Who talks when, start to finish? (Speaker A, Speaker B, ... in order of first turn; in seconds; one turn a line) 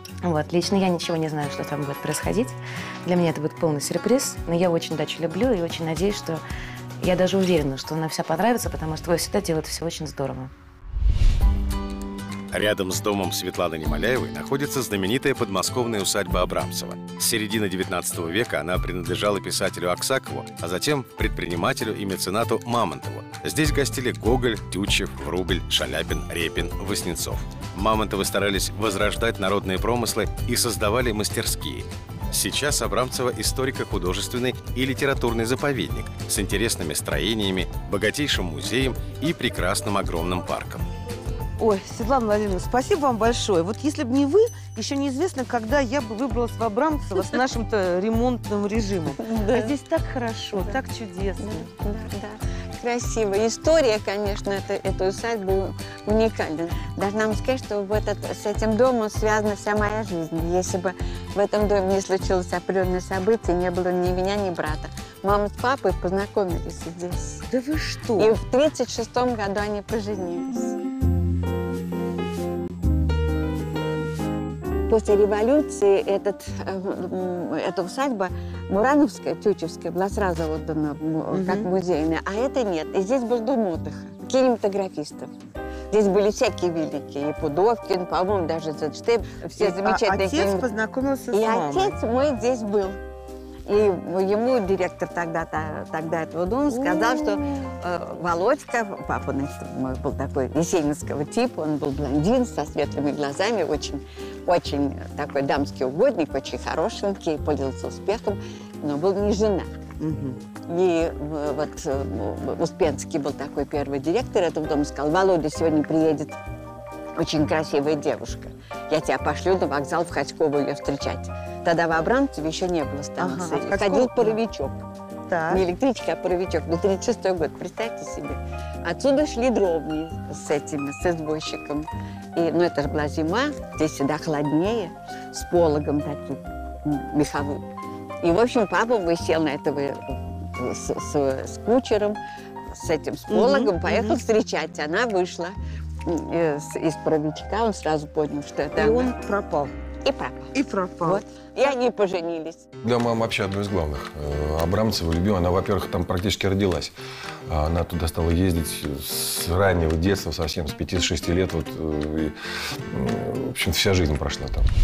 Speaker A: 0.2-6.4
Speaker A: 7.0-10.5
Speaker B: 12.5-40.9
Speaker C: 41.6-51.7
Speaker D: 49.2-49.7
Speaker D: 51.4-67.4
Speaker C: 67.5-68.3
Speaker D: 68.2-70.7
Speaker D: 74.9-85.3
Speaker C: 81.3-81.7
Speaker D: 85.9-90.7
Speaker C: 89.6-92.0
Speaker D: 91.3-93.0
Speaker D: 93.7-109.7
Speaker C: 96.8-97.2
Speaker C: 110.0-110.4
Speaker D: 110.7-116.4
Speaker D: 117.2-124.8
Speaker C: 123.2-124.4
Speaker C: 125.3-125.6
Speaker D: 125.5-137.6
Speaker D: 138.2-142.2
Speaker D: 142.7-149.1
Speaker C: 143.3-144.2
Speaker C: 148.8-149.7
Speaker D: 150.0-150.5
Speaker C: 150.5-151.7
Speaker D: 151.0-152.6
Speaker E: 152.8-156.9
Speaker E: 157.5-162.3
Speaker E: 162.9-164.7